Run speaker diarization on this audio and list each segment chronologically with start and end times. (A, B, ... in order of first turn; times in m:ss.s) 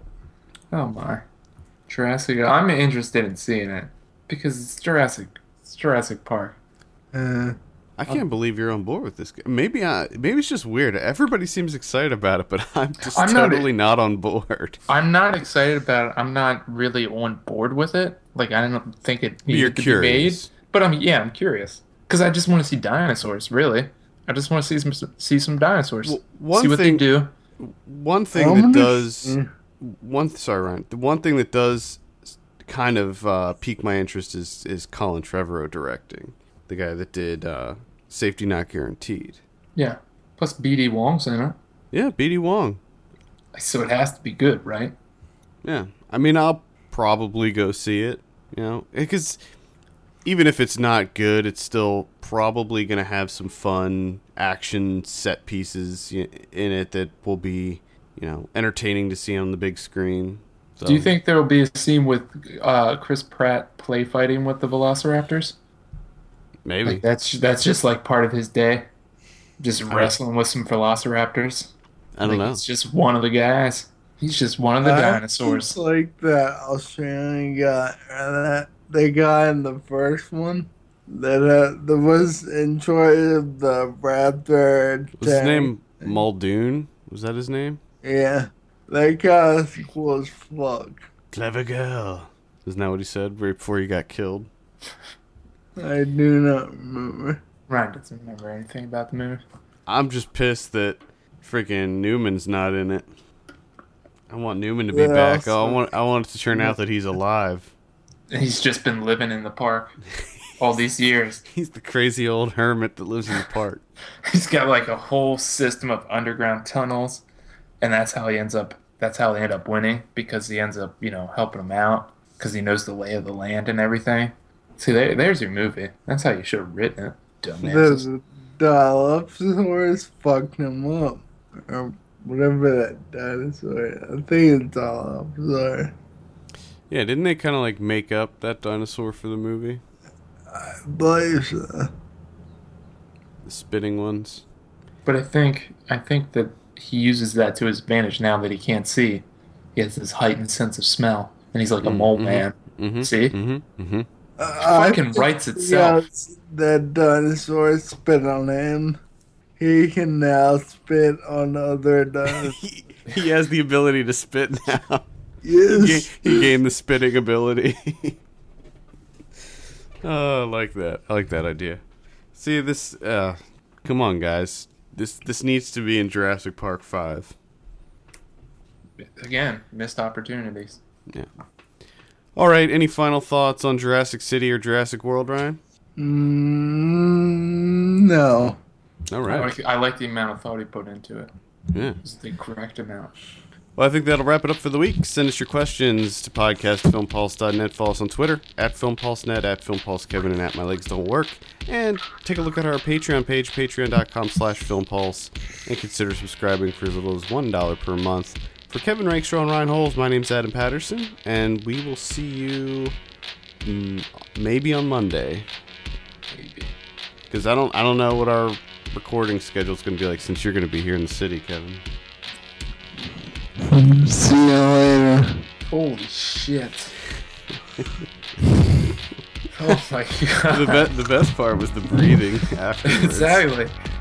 0:00.7-0:01.2 A
0:01.9-0:06.6 A
0:07.1-0:07.6 B
0:08.0-0:14.8 C
0:13.0-0:13.7 A
0:14.9-0:27.3 A
0:19.5-0:20.5 C
0:26.0-0:27.0 C
0:27.6-0:39.4 C
0:28.3-0:29.5 B
0:39.8-0:41.6 A
0:41.9-0:42.8 C
0:43.5-0:44.9 A
0:45.6-0:49.4 C
0:50.2-1:01.1 C
1:00.8-1:05.6 A
1:06.6-1:07.0 C
1:06.8-1:08.9 A
1:09.6-1:11.7 A
1:09.9-1:10.1 C
1:12.2-1:12.6 C
1:12.2-1:15.7 A
1:14.8-1:26.2 B
1:25.2-1:27.8 C
1:28.0-1:31.0 B
1:31.3-1:34.5 C
1:35.8-1:37.4 B
1:37.7-1:39.4 A
1:39.8-1:43.1 C
1:44.3-1:47.7 C
1:44.9-1:45.8 B
1:48.3-1:49.9 A
1:50.6-1:51.4 A
1:51.5-1:53.8 C
1:54.2-1:57.2 A
1:57.8-2:08.0 A
2:07.6-2:15.9 B
2:16.9-2:19.8 C
2:20.5-2:21.9 B
2:23.4-2:24.4 C
2:25.0-2:29.2 A
2:29.8-2:33.3 A
2:31.8-2:34.1 C
2:34.4-2:39.0 B
2:34.6-2:36.0 A
2:39.6-2:42.6 B
2:42.3-2:45.1 C
2:45.4-2:46.5 B
2:45.7-2:48.2 C
2:50.0-2:51.8 C
2:52.3-2:57.3 C
2:59.0-3:00.8 A
3:02.4-3:05.6 C
3:06.0-3:08.6 B
3:09.1-3:09.5 C
3:09.2-3:11.3 A
3:11.7-3:12.0 C
3:12.0-3:13.1 A
3:13.8-3:33.0 C
3:33.6-3:35.5 C
3:36.3-3:36.7 A
3:37.3-3:41.8 C
3:43.6-3:45.4 B
3:45.6-3:46.9 A
3:49.5-3:50.9 A
3:50.5-3:53.4 C
3:52.8-3:53.7 A